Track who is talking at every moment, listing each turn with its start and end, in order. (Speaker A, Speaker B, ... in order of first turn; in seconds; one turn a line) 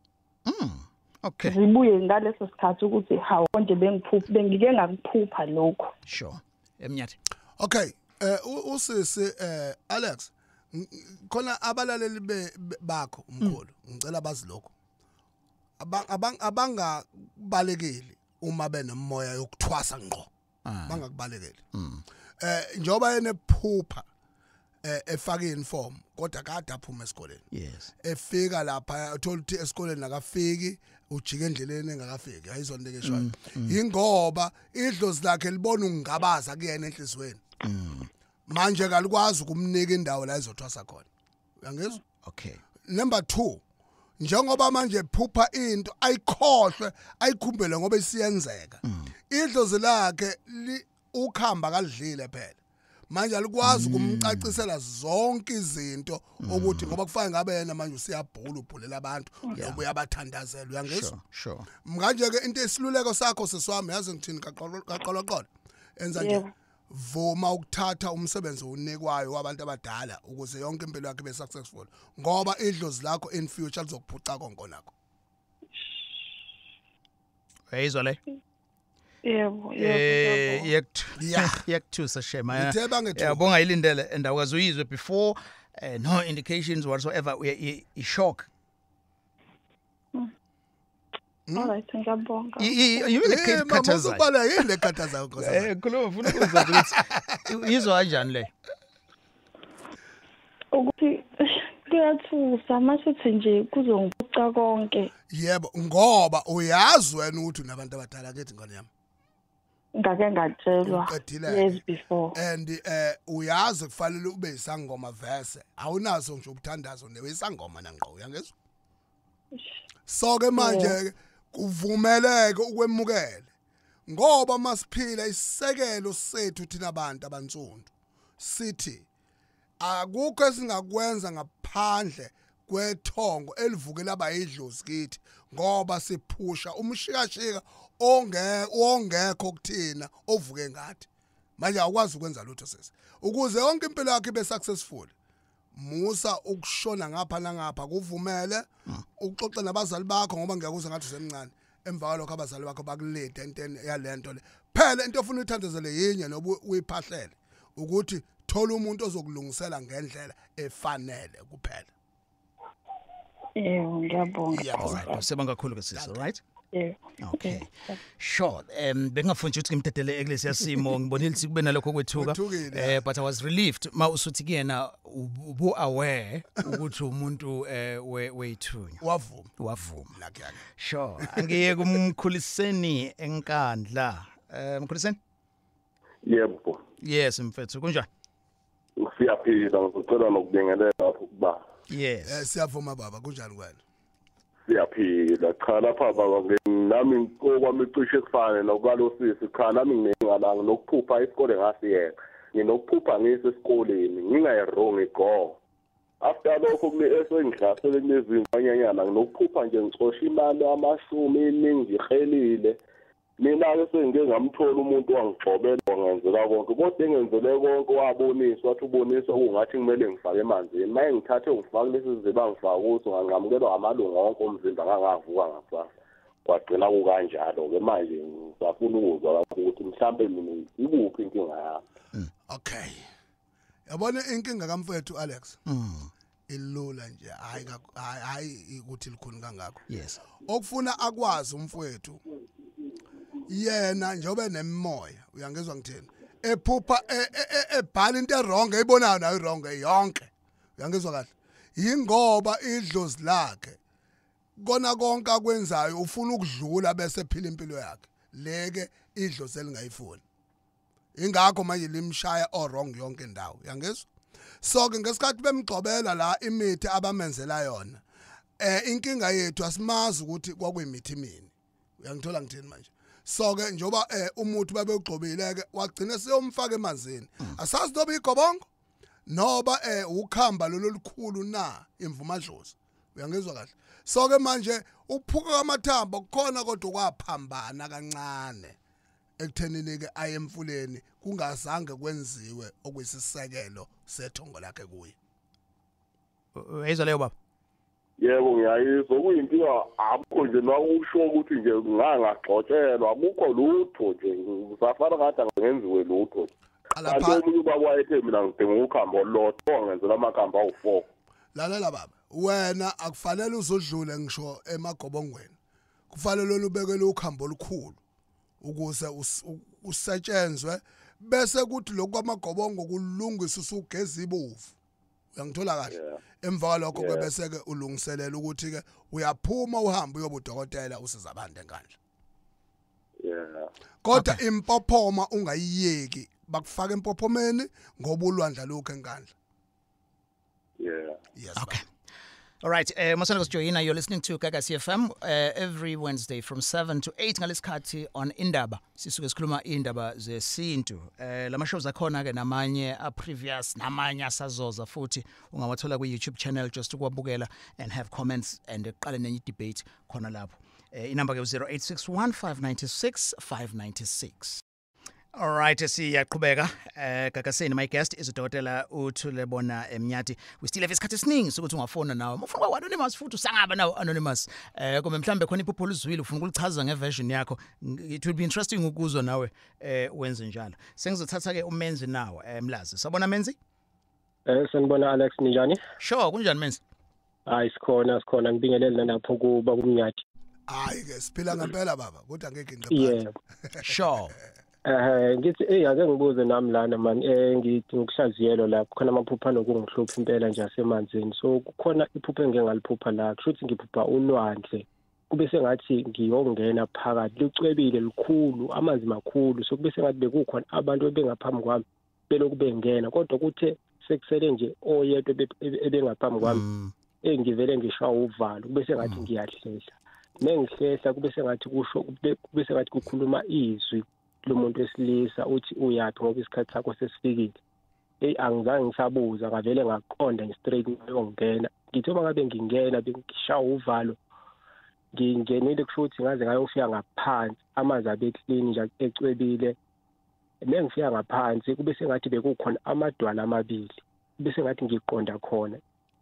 Speaker A: 0.5-1.6
Speaker B: 1.4-5.9
Speaker A: 6.1-7.2
Speaker C: 7.6-14.7
Speaker C: 15.8-20.3
Speaker A: 20.7-21.0
Speaker C: 20.9-21.6
Speaker A: 21.7-22.0
Speaker C: 22.4-24.1
Speaker C: 24.8-27.4
Speaker A: 27.5-27.9
Speaker C: 28.0-37.4
Speaker A: 33.0-33.8
Speaker A: 37.6-38.1
Speaker C: 38.5-41.1
Speaker C: 41.6-42.0
Speaker A: 42.2-42.6
Speaker C: 42.9-43.6
Speaker C: 44.2-52.6
Speaker A: 48.8-49.1
Speaker C: 53.1-61.1
Speaker A: 53.6-54.6
Speaker A: 56.4-57.0
Speaker A: 59.6-59.8
Speaker A: 60.9-61.7
Speaker C: 61.8-74.9
Speaker B: 66.2-66.5
Speaker A: 77.7-78.2
Speaker B: 79.2-80.7
Speaker A: 79.8-88.5
Speaker C: 81.2-81.6
Speaker C: 82.5-83.4
Speaker C: 91.5-91.8
Speaker B: 91.5-92.8
Speaker A: 92.6-94.2
Speaker C: 93.2-95.7
Speaker A: 95.4-98.5
Speaker C: 96.2-97.4
Speaker B: 100.7-105.1
Speaker C: 105.3-108.9
Speaker B: 110.0-112.4
Speaker C: 110.8-111.8
Speaker C: 112.3-118.5
Speaker C: 120.1-123.5
Speaker B: 120.6-121.0
Speaker C: 124.1-129.1
Speaker C: 129.8-145.1
Speaker C: 145.7-161.9
Speaker B: 163.6-165.2
Speaker C: 164.5-165.2
Speaker A: 164.8-166.4
Speaker C: 165.9-166.2
Speaker B: 166.7-168.0
Speaker A: 167.2-179.0
Speaker C: 172.2-173.0
Speaker C: 179.0-179.5
Speaker A: 179.6-180.2
Speaker C: 180.1-180.7
Speaker A: 180.8-185.2
Speaker C: 181.2-181.6
Speaker D: 186.3-186.8
Speaker A: 187.0-188.1
Speaker D: 189.0-191.6
Speaker A: 191.9-192.5
Speaker C: 192.2-193.8
Speaker D: 194.7-205.6
Speaker D: 206.2-212.8
Speaker D: 213.4-225.9
Speaker D: 226.4-231.8
Speaker C: 232.5-233.1
Speaker C: 233.9-235.6
Speaker A: 235.7-236.1
Speaker C: 236.5-239.8
Speaker A: 239.9-240.2
Speaker C: 240.4-242.2
Speaker C: 243.5-253.8
Speaker C: 254.6-260.2
Speaker C: 261.1-264.1
Speaker C: 264.6-268.0
Speaker C: 268.6-278.7
Speaker C: 279.3-288.8
Speaker C: 289.4-295.2
Speaker A: 296.6-297.3
Speaker D: 298.2-306.5
Speaker C: 306.9-307.4
Speaker D: 307.1-311.1
Speaker C: 311.6-315.6
Speaker C: 316.1-318.0
Speaker C: 318.6-324.8
Speaker C: 325.4-331.9
Speaker D: 325.9-326.2
Speaker D: 326.9-327.3
Speaker D: 333.2-333.7
Speaker C: 334.0-339.3
Speaker A: 334.1-334.4
Speaker D: 340.8-341.2
Speaker C: 341.4-341.8
Speaker A: 341.6-341.8
Speaker A: 342.6-364.6
Speaker A: 365.4-383.6
Speaker E: 384.5-385.8
Speaker A: 386.0-386.8
Speaker E: 387.5-390.2
Speaker C: 390.7-393.9
Speaker E: 392.9-393.3
Speaker A: 393.8-394.4
Speaker E: 394.9-416.7
Speaker A: 416.4-416.9
Speaker E: 417.2-427.6
Speaker E: 428.2-434.2
Speaker E: 435.1-439.8
Speaker E: 440.6-445.8